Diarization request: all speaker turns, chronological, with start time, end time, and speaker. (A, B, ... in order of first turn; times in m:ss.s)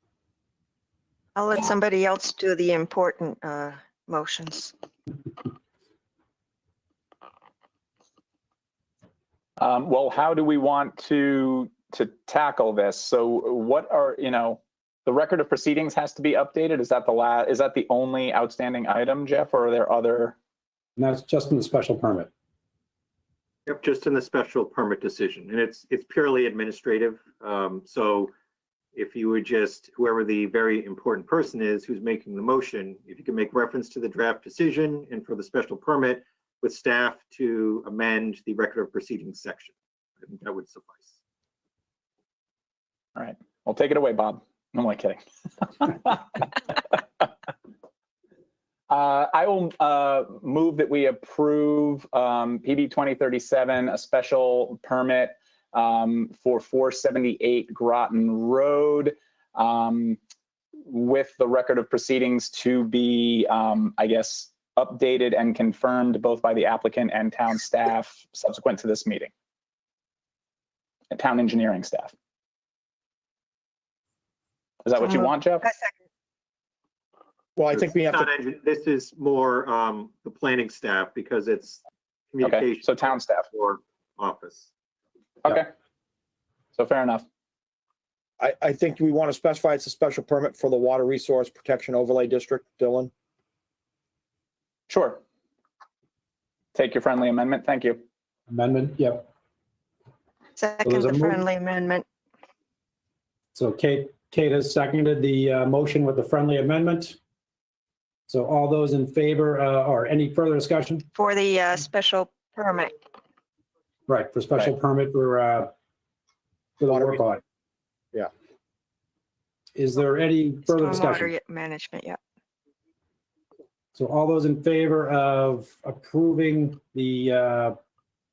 0:01.4-0:04.7 A
0:09.6-0:20.3 B
0:21.0-0:22.3 C
0:23.6-0:28.3 D
0:28.9-0:41.1 D
0:43.2-0:47.3 B
0:48.9-1:00.2 B
1:00.8-1:09.3 B
1:11.1-1:12.1 B
1:14.8-1:15.7 B
1:15.1-1:15.9 A
1:17.6-1:18.3 E
1:17.8-1:24.7 D
1:22.4-1:23.5 B
1:25.4-1:25.7 B
1:26.8-1:27.2 B
1:28.4-1:33.1 E
1:34.9-1:35.2 B
1:36.7-1:38.0 B
1:38.5-1:39.3 C
1:40.6-1:42.0 A
1:40.8-1:41.4 C
1:43.5-1:47.2 C
1:48.3-1:51.0 C
1:51.1-1:52.9 A
1:54.1-1:55.7 C
1:56.8-1:57.4 C
1:56.8-1:57.2 E
1:59.8-2:01.3 C
2:00.7-2:02.2 A
2:03.9-2:07.8 C